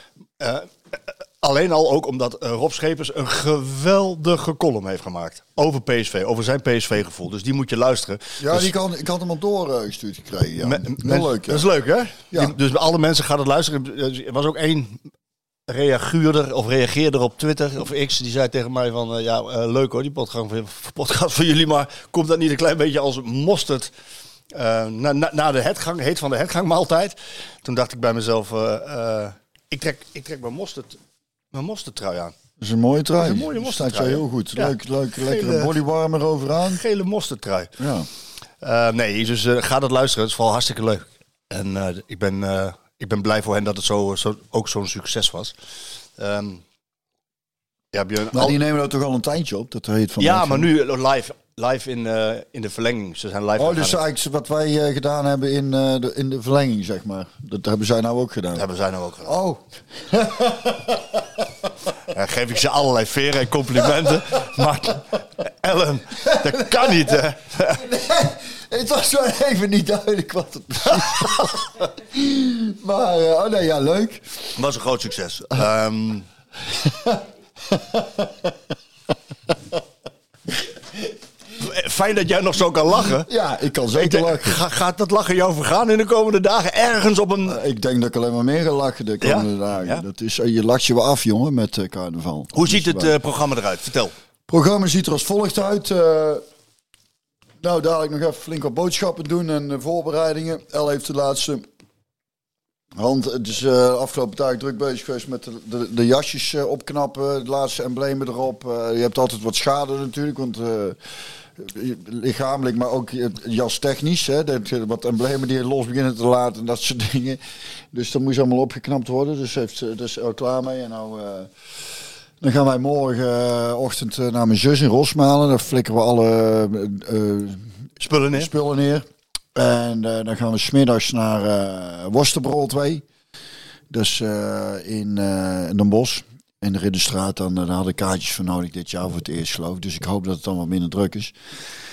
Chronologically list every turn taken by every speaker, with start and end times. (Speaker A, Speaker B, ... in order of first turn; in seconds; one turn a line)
Speaker A: 0.4-8.7
Speaker B: 8.4-11.7
Speaker A: 10.6-15.0
Speaker B: 12.3-12.6
Speaker A: 15.7-23.9
Speaker A: 24.5-31.0
Speaker A: 31.5-32.4
Speaker B: 32.6-36.8
Speaker A: 33.2-35.8
Speaker A: 36.7-37.7
Speaker B: 37.8-38.1
Speaker A: 38.6-45.5
Speaker A: 46.2-46.6
Speaker A: 47.9-48.6
Speaker B: 48.3-50.7
Speaker A: 50.2-54.0
Speaker B: 53.6-58.6
Speaker A: 58.5-59.4
Speaker B: 59.2-61.7
Speaker A: 62.1-67.8
Speaker B: 63.9-64.4
Speaker B: 66.2-67.2
Speaker B: 67.7-74.5
Speaker A: 70.8-71.5
Speaker A: 74.6-76.3
Speaker B: 76.7-78.6
Speaker B: 79.5-79.8
Speaker B: 80.7-81.1
Speaker A: 81.6-83.3
Speaker B: 83.2-84.6
Speaker A: 84.0-87.6
Speaker B: 87.5-93.2
Speaker A: 89.2-90.0
Speaker A: 92.5-94.1
Speaker B: 94.5-96.4
Speaker B: 97.6-101.7
Speaker B: 103.0-111.0
Speaker B: 111.6-117.4
Speaker B: 117.9-121.5
Speaker B: 122.4-133.0
Speaker A: 128.0-128.5
Speaker B: 133.9-141.3